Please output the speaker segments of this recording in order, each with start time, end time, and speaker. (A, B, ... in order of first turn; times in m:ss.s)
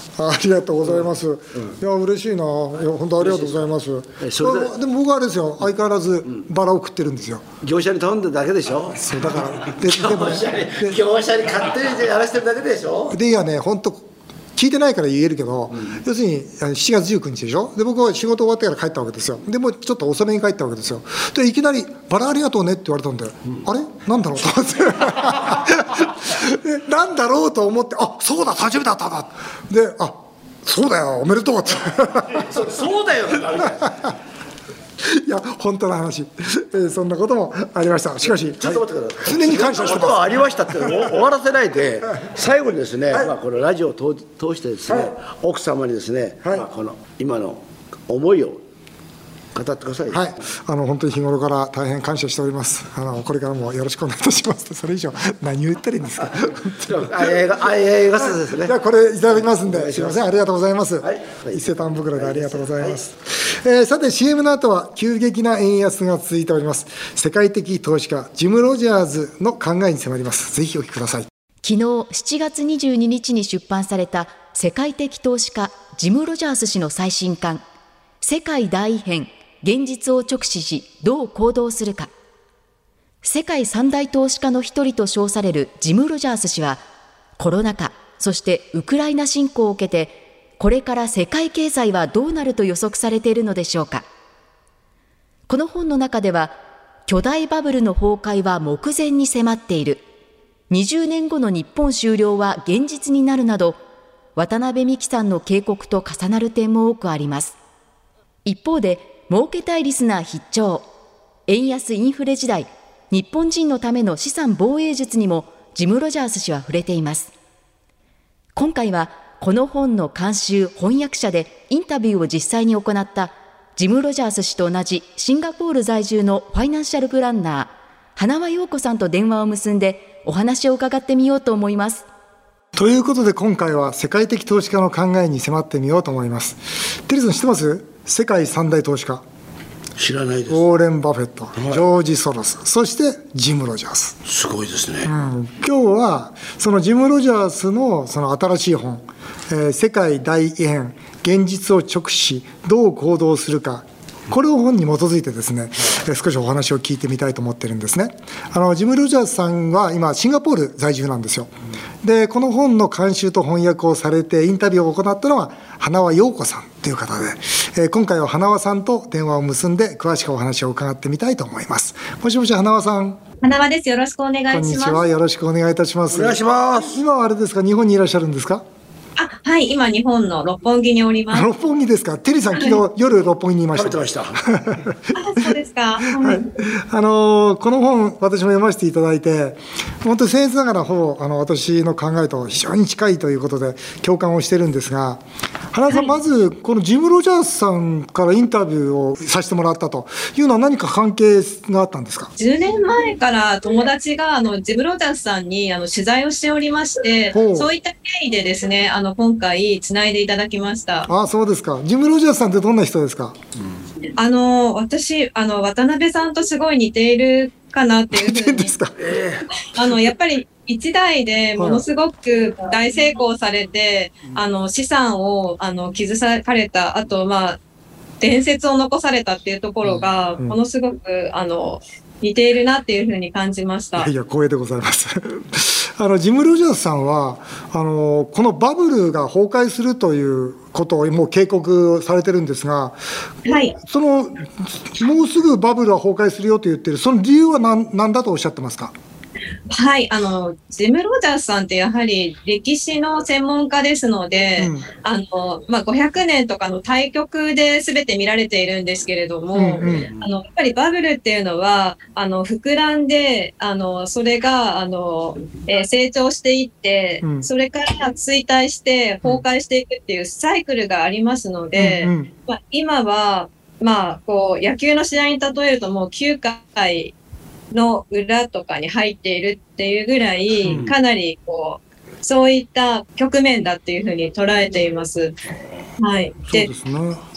0:00.2-0:07.5 A
0:03.2-0:03.7 B
0:04.2-0:04.8 B
0:07.6-0:13.2 B
0:09.0-0:11.0 A
0:13.1-0:32.5 A
0:32.4-0:34.0 B
0:35.0-0:40.3 A
0:38.4-0:48.6 B
0:44.9-0:45.1 A
0:49.5-0:50.2 B
0:50.1-0:57.4 A
0:56.8-0:58.7 B
0:58.2-1:11.3 A
0:59.5-1:00.2 B
1:01.0-1:03.0 B
1:11.6-1:17.6 C
1:18.2-1:22.1 C
1:23.2-1:26.8 C
1:27.4-1:34.0 C
1:35.5-1:40.0 C
1:40.7-1:43.8 C
1:44.4-1:47.6 C
1:48.4-1:50.9 C
1:51.5-1:57.3 C
1:58.5-2:12.1 C
2:12.8-2:19.2 A
2:20.0-2:20.7 B
2:20.5-2:24.2 A
2:21.6-2:21.8 B
2:24.2-2:25.1 B
2:25.0-2:53.2 A
2:53.4-2:55.0 D
2:54.5-2:58.6 A
2:56.1-2:57.0 B
2:59.2-3:01.5 D
3:01.3-3:22.3 A
3:03.7-3:04.4 B
3:05.2-3:06.5 D
3:22.4-3:31.1 D
3:27.3-3:27.7 A
3:31.1-3:33.4 A
3:34.2-3:38.7 D
3:38.1-3:39.0 A
3:39.0-3:39.5 B
3:39.6-3:47.6 D
3:41.6-3:41.8 A
3:48.2-3:54.1 D
3:49.8-3:50.6 A
3:54.0-4:08.9 A
4:03.5-4:03.8 D
4:09.7-4:37.1 D
4:14.6-4:14.9 A
4:19.5-4:20.1 A
4:27.2-4:27.5 A
4:31.8-4:32.3 A
4:37.7-4:45.4 D
4:40.7-4:41.0 B
4:46.0-4:46.7 D
4:46.5-4:47.2 A